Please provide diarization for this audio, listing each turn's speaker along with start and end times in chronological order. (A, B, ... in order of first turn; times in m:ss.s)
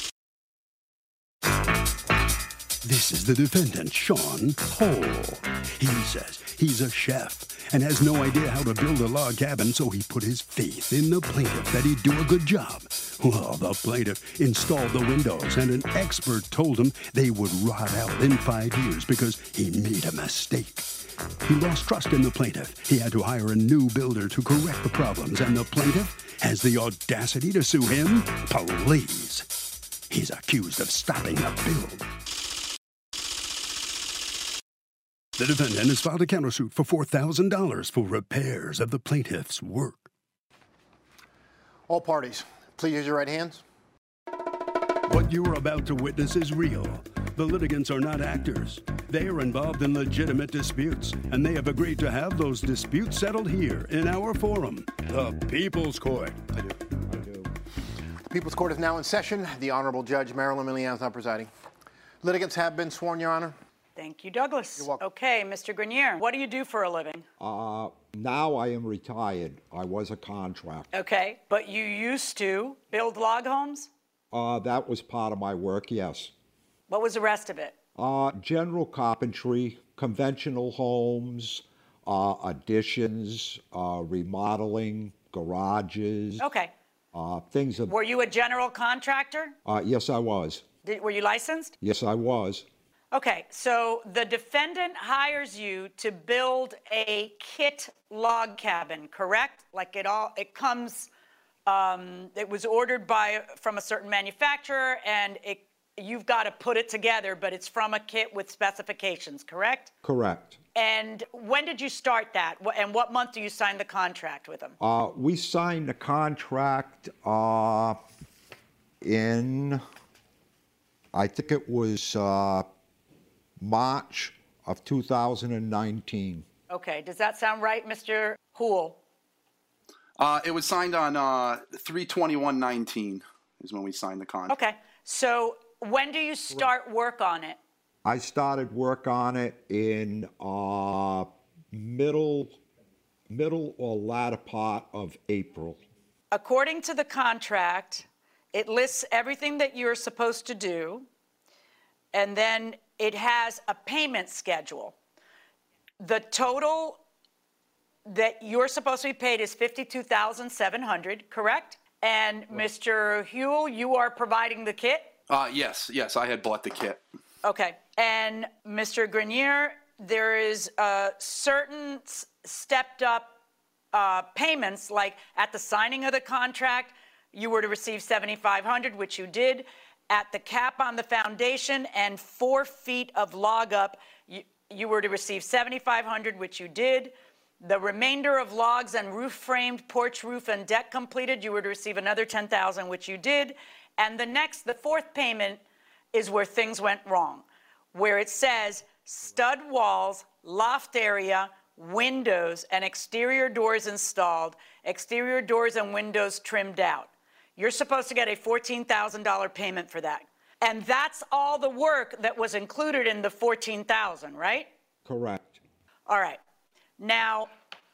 0:02.8-0:20.9 A
0:21.4-0:29.6 A
0:30.1-0:32.1 A
0:35.4-0:40.1 A
0:41.9-0:43.6 B
0:45.0-0:56.5 A
0:57.1-0:57.5 C
0:58.2-1:01.5 B
1:02.2-1:03.6 B
1:04.0-1:07.2 D
1:07.4-1:10.9 C
1:10.9-1:13.9 D
1:14.3-1:16.3 C
1:16.9-1:17.7 D
1:18.0-1:26.4 C
1:26.4-1:26.7 D
1:27.1-1:27.9 C
1:27.9-1:29.6 D
1:29.6-1:30.6 C
1:30.8-1:31.7 D
1:31.8-1:32.6 C
1:33.1-1:41.1 D
1:41.6-1:49.9 D
1:50.0-1:50.6 C
1:50.7-1:54.8 D
1:54.8-1:58.0 C
1:59.0-1:59.8 C
2:01.1-2:02.7 C
2:03.6-2:06.4 C
2:06.7-2:09.0 D
2:10.2-2:14.5 E
2:14.5-2:17.6 D
2:18.0-2:22.6 C
2:23.3-2:25.8 C
2:26.3-2:31.1 D
2:32.1-2:34.9 D
2:36.0-2:37.0 D
2:38.1-2:45.1 D
2:45.3-2:47.0 E
2:47.4-2:53.4 D
2:53.9-3:15.6 D
3:16.1-3:34.7 D
3:35.0-3:35.6 C
3:36.1-3:36.4 D
3:37.0-3:37.5 D